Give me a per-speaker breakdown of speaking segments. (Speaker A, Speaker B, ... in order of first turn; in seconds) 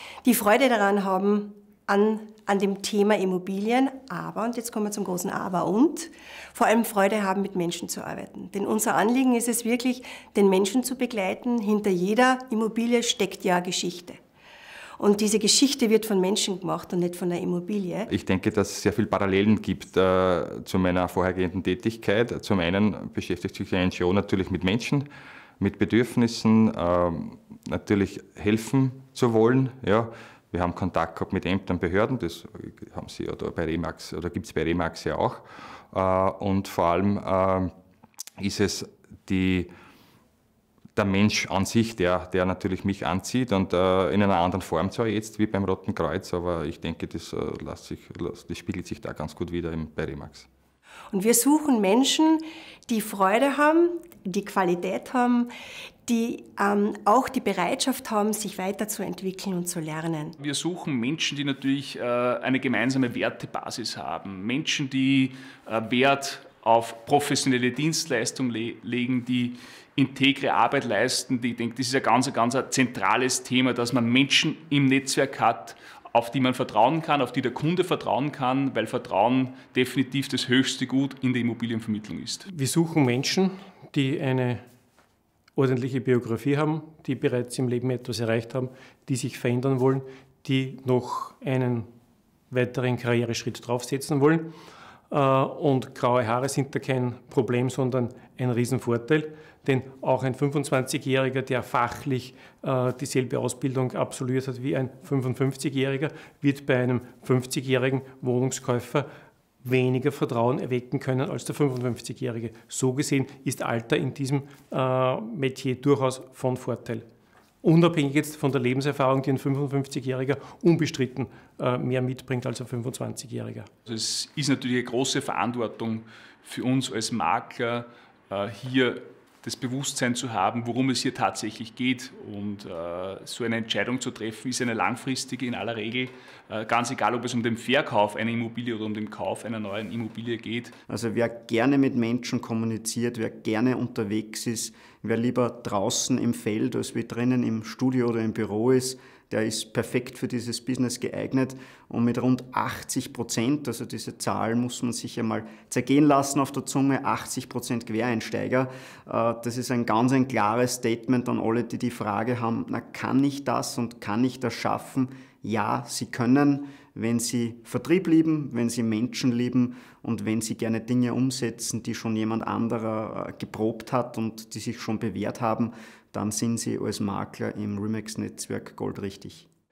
Speaker A: 0.2-14.2, 15.0-18.1, 51.1-55.5, 56.1-60.4
Speaker B: 18.1-25.1, 25.6-37.7, 38.4-39.7, 41.0-50.5
Speaker C: 60.4-82.5, 123.9-140.7
Speaker D: 82.5-84.6, 85.5-91.9, 92.5-94.5, 95.1-109.1, 109.6-117.0, 117.6-123.7
Speaker E: 140.9-179.5